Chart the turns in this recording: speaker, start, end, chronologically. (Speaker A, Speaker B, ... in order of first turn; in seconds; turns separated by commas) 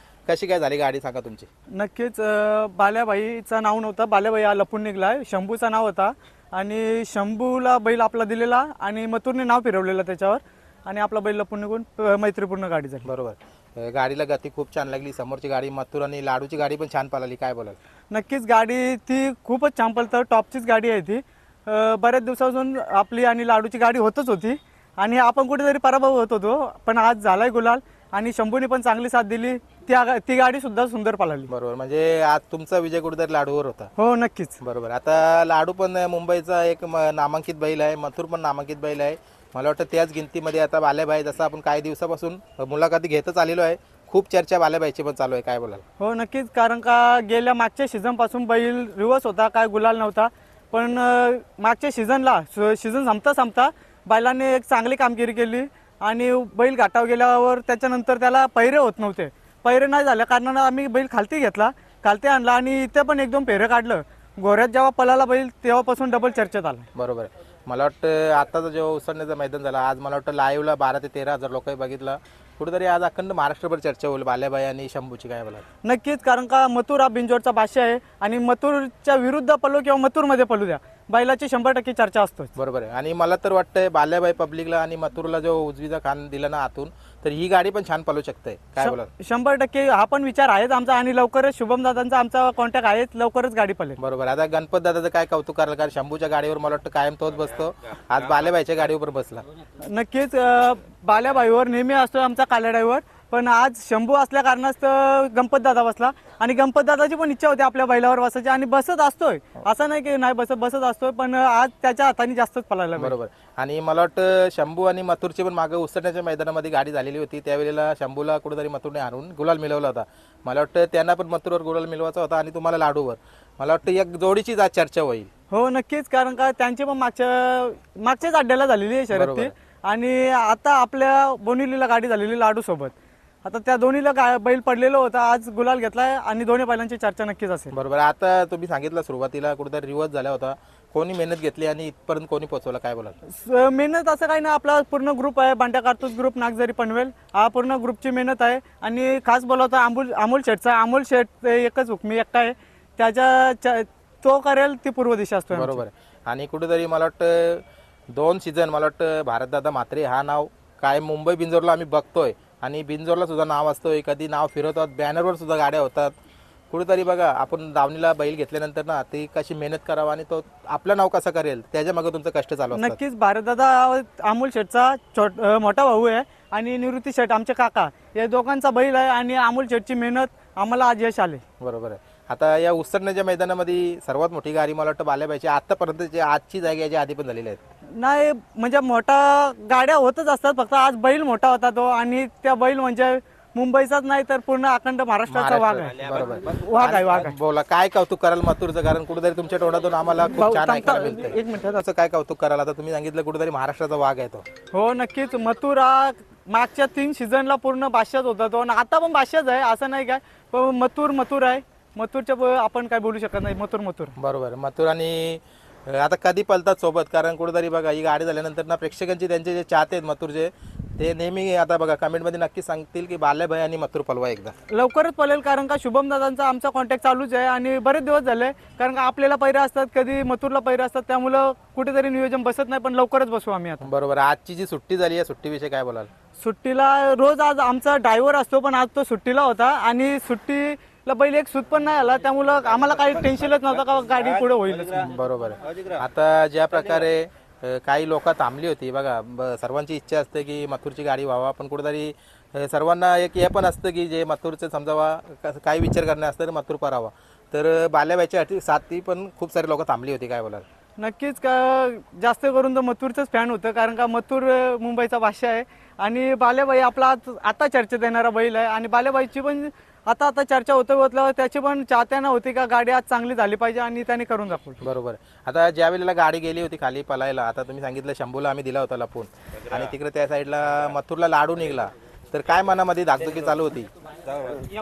Speaker A: 0.3-1.5, Speaker B: 1.7-13.1, Speaker A: 13.0-17.8, Speaker B: 18.1-31.5, Speaker A: 31.5-33.9, Speaker B: 34.0-34.6, Speaker A: 34.6-45.8, Speaker B: 46.0-66.9, Speaker A: 66.9-75.6, Speaker B: 75.8-82.5, Speaker A: 82.5-89.1, Speaker B: 88.8-94.0, Speaker A: 94.0-99.4, Speaker B: 99.8-113.1, Speaker A: 113.0-125.3, Speaker B: 125.5-132.9, Speaker A: 129.1-129.5, Speaker B: 133.4-137.7, Speaker A: 137.7-143.2, Speaker B: 143.2-155.8, Speaker A: 155.5-166.1, Speaker A: 166.7-173.0, Speaker B: 172.7-181.4, Speaker A: 181.6-187.6, Speaker B: 187.9-197.3, Speaker A: 195.3-204.4, Speaker B: 200.3-201.8, Speaker B: 204.7-214.1, Speaker A: 214.2-224.5, Speaker B: 224.7-233.9, Speaker A: 233.8-236.1, Speaker B: 236.4-245.1, Speaker A: 245.0-260.6, Speaker B: 261.0-274.8, Speaker A: 274.8-283.9